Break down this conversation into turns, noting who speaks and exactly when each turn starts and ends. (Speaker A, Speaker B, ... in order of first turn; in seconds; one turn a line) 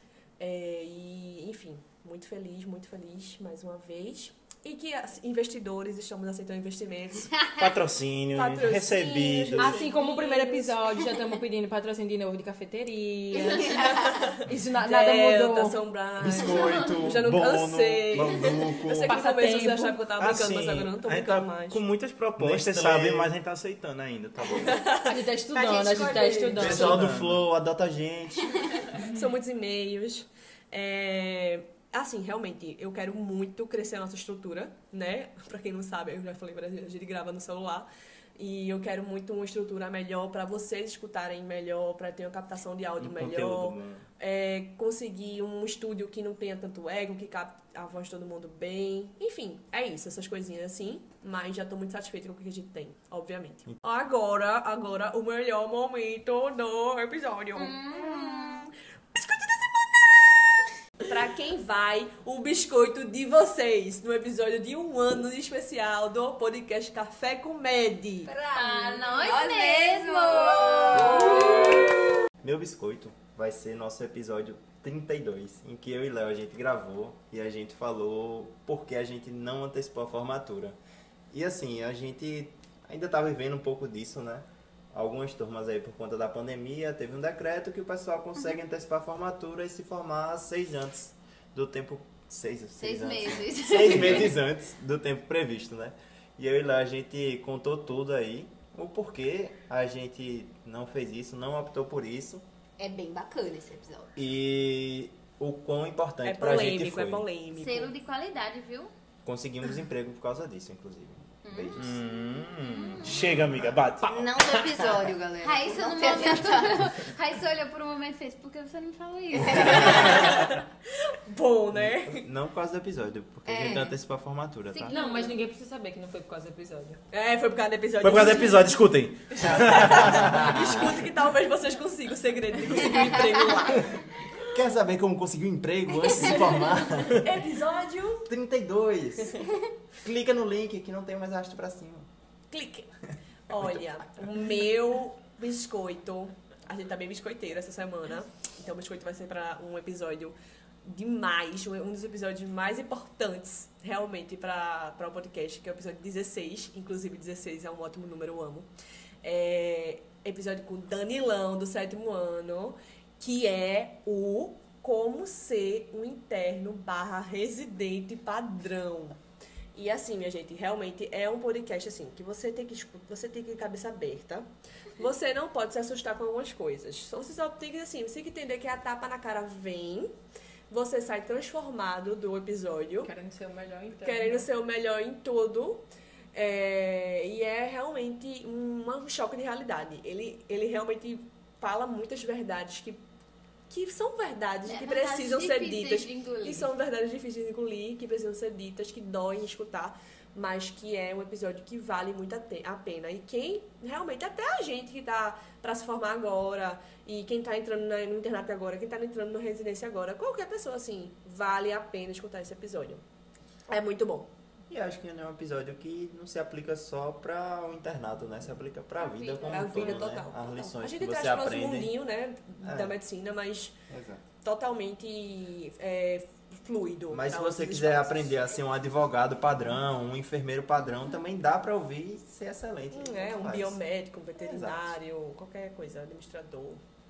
Speaker A: 0.4-7.5
Speaker B: 7.6-9.9
Speaker A: 8.3-10.7
Speaker C: 9.6-15.8
Speaker A: 13.5-21.8
Speaker D: 16.2-19.2
Speaker C: 19.1-20.0
Speaker B: 20.2-24.9
Speaker D: 22.4-23.3
Speaker A: 24.4-27.0
Speaker C: 25.0-27.0
Speaker E: 25.9-26.3
Speaker D: 26.6-28.8
Speaker B: 26.6-27.4
Speaker A: 28.9-68.3
Speaker B: 43.0-44.1
Speaker E: 57.6-58.7
Speaker F: 68.3-72.0
Speaker E: 68.5-71.9
Speaker D: 70.9-71.5
Speaker D: 72.4-80.8
Speaker D: 81.3-102.5
Speaker E: 92.8-94.3
Speaker F: 102.8-104.1
Speaker D: 104.2-107.2
Speaker A: 106.2-107.9
Speaker E: 107.5-108.9
Speaker D: 109.2-112.0
Speaker E: 111.4-113.3
Speaker B: 111.7-115.0
Speaker D: 113.3-113.7
Speaker F: 114.0-116.9
Speaker E: 115.4-120.4
Speaker A: 119.8-122.2
Speaker D: 121.7-125.0
Speaker F: 123.5-124.0
Speaker E: 124.7-125.3
Speaker C: 124.9-127.0
Speaker A: 127.1-128.8
Speaker B: 128.0-130.6
Speaker A: 129.4-134.0
Speaker D: 130.1-130.7
Speaker D: 134.4-137.3
Speaker A: 136.2-136.7
Speaker A: 137.2-138.2
Speaker D: 138.3-142.1
Speaker A: 142.5-142.9
Speaker A: 143.5-158.7
Speaker A: 159.2-169.2
Speaker A: 169.8-174.5
Speaker A: 175.0-180.1
Speaker A: 180.7-183.1
Speaker C: 183.0-184.5
Speaker A: 184.0-193.0
Speaker A: 193.7-213.0
Speaker E: 194.7-196.7
Speaker A: 213.7-214.3
Speaker D: 214.7-221.9
Speaker E: 219.0-220.0
Speaker A: 219.5-223.8
Speaker D: 222.6-223.0
Speaker D: 223.9-224.2
Speaker A: 224.4-228.5
Speaker D: 227.1-233.8
Speaker A: 232.9-236.8
Speaker D: 234.4-235.0